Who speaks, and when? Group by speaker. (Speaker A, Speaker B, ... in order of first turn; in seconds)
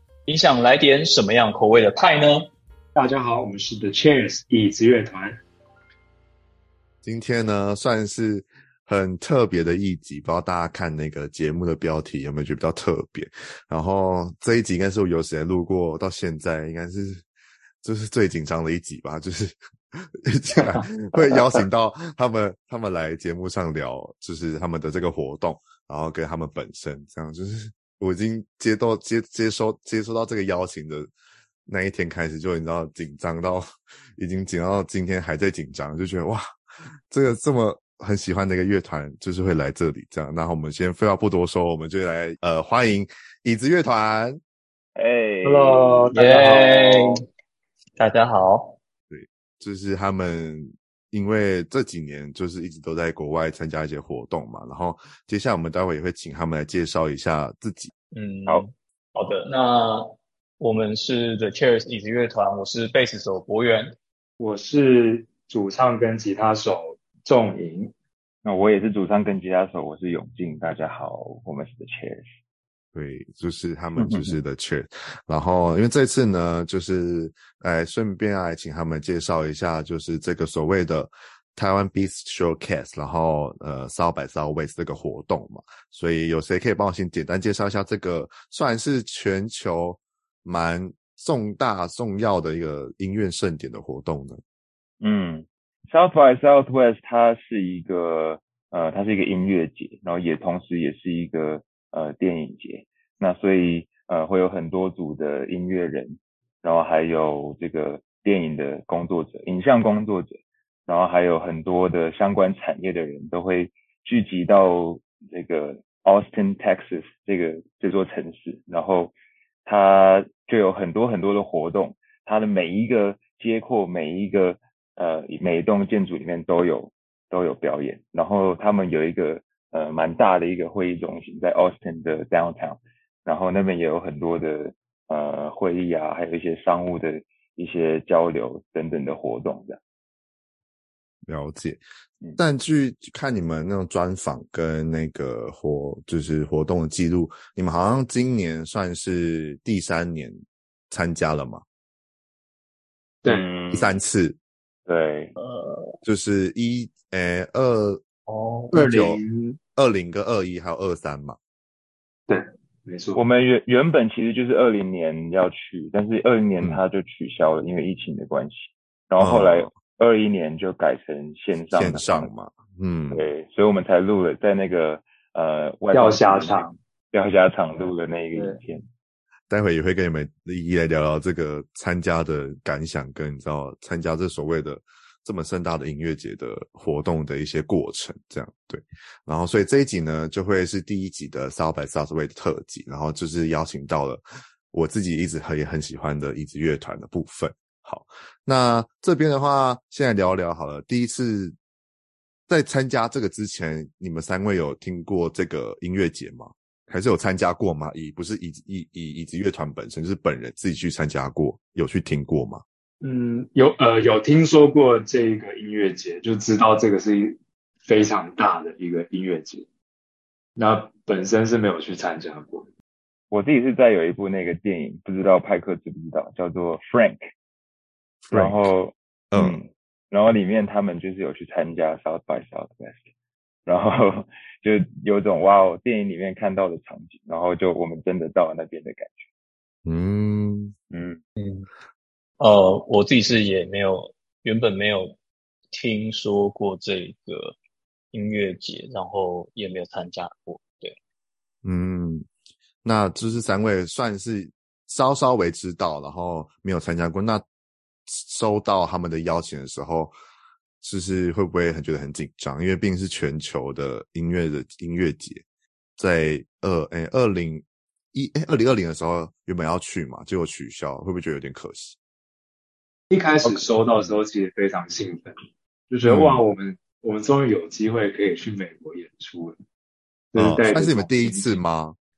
Speaker A: 0.3-2.5, 46.1-47.2, 48.0-48.8, 58.1-63.9, 155.4-155.9, 158.3-158.7, 241.4-241.7, 242.4-245.2, 245.7-247.6, 248.1-250.9
Speaker B: 2.9-5.4, 45.4-47.2, 64.4-67.9, 158.7-159.6, 162.3-163.2, 175.9-176.8, 213.0-219.6, 220.6-222.7, 273.1-279.6, 280.3-281.6
Speaker C: 7.0-17.2, 17.8-31.1, 31.7-44.4, 49.1-57.9, 72.9-94.4, 141.3-141.8, 142.4-150.4, 150.9-151.6, 153.7-154.4, 156.0-158.0, 158.7-159.2, 159.8-161.4, 169.2-169.7, 171.7-173.3, 179.5-201.6, 202.5-212.6, 228.2-228.6, 229.3-229.6, 239.8-240.7, 251.6-252.3, 252.8-257.4, 258.1-260.1, 260.8-265.4, 266.0-271.9, 276.0-276.4, 280.3-281.9
Speaker D: 45.0-46.1, 68.4-72.3, 74.0-74.3, 95.0-119.1, 119.7-139.8, 153.2-154.0, 154.9-155.3, 163.2-172.3, 173.1-178.8, 223.3-227.2, 228.3-233.0, 233.7-239.2, 240.9-241.2